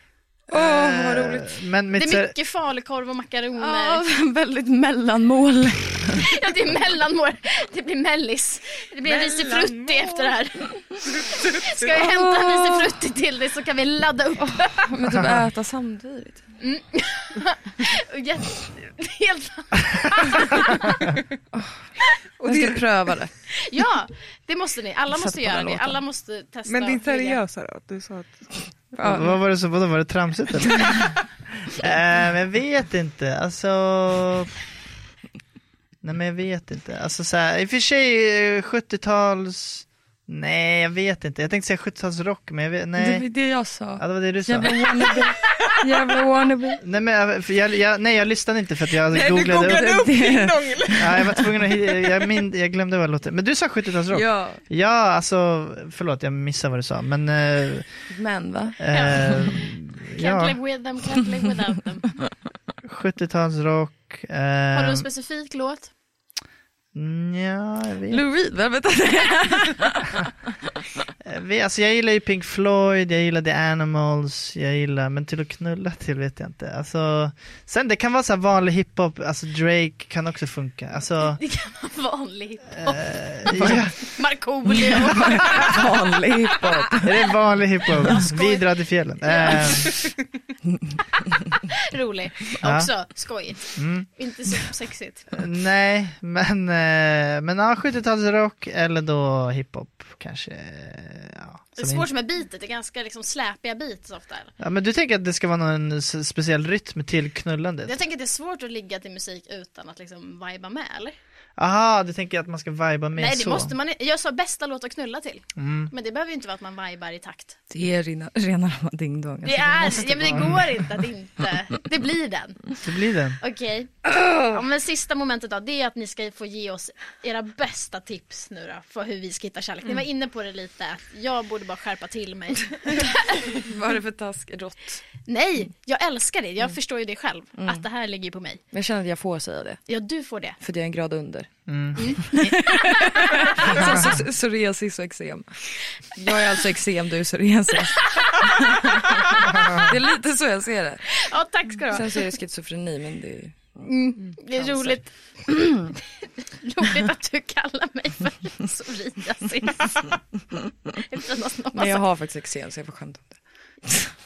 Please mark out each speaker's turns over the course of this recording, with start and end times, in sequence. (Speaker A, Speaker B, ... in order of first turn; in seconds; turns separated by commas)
Speaker A: 0.5-1.5, Speaker B: 0.5-2.3, Speaker C: 1.9-4.0, Speaker A: 3.5-6.3, Speaker C: 6.2-15.0, Speaker D: 9.0-10.5, Speaker D: 11.0-11.9, Speaker A: 11.9-13.0, Speaker A: 14.4-16.5, Speaker C: 16.6-21.0, Speaker A: 21.5-23.3, Speaker D: 22.4-22.8, Speaker C: 23.6-27.4, Speaker A: 25.1-26.0, Speaker D: 26.6-28.7, Speaker A: 28.9-29.4, Speaker B: 29.0-34.5, Speaker B: 36.0-43.3, Speaker A: 43.0-46.8, Speaker B: 44.0-44.7, Speaker B: 46.8-50.0, Speaker D: 49.1-51.4, Speaker A: 49.2-51.5, Speaker B: 50.9-57.9, Speaker A: 54.1-54.6, Speaker A: 58.1-59.4, Speaker B: 58.8-60.6, Speaker C: 58.9-59.5, Speaker C: 60.2-62.3, Speaker B: 62.8-65.1, Speaker C: 64.7-65.9, Speaker B: 66.9-68.2, Speaker A: 68.1-70.2, Speaker B: 71.2-81.4, Speaker C: 81.2-87.0, Speaker B: 82.8-84.2, Speaker A: 84.7-87.1, Speaker B: 87.0-90.0, Speaker C: 88.0-88.6, Speaker C: 89.2-90.1, Speaker C: 91.2-95.4, Speaker B: 92.6-92.9, Speaker B: 93.7-94.1, Speaker B: 95.3-102.1, Speaker C: 101.8-104.5, Speaker B: 104.6-107.9, Speaker C: 107.8-111.2, Speaker B: 111.6-113.7, Speaker C: 113.2-117.6, Speaker B: 115.6-115.9, Speaker A: 117.7-120.8, Speaker C: 119.4-122.8, Speaker B: 120.2-120.6, Speaker B: 122.8-123.4, Speaker C: 123.4-133.6, Speaker A: 124.0-124.6, Speaker A: 133.5-135.0, Speaker C: 135.2-138.6, Speaker A: 137.6-137.8, Speaker A: 138.7-139.8, Speaker C: 139.9-140.6, Speaker A: 140.6-151.2, Speaker B: 141.7-142.1, Speaker C: 141.9-144.1, Speaker B: 143.7-144.2, Speaker C: 149.1-149.6, Speaker B: 149.6-149.8, Speaker C: 151.2-152.3, Speaker A: 151.9-155.9, Speaker C: 153.8-155.9, Speaker C: 156.5-162.0, Speaker A: 161.7-164.1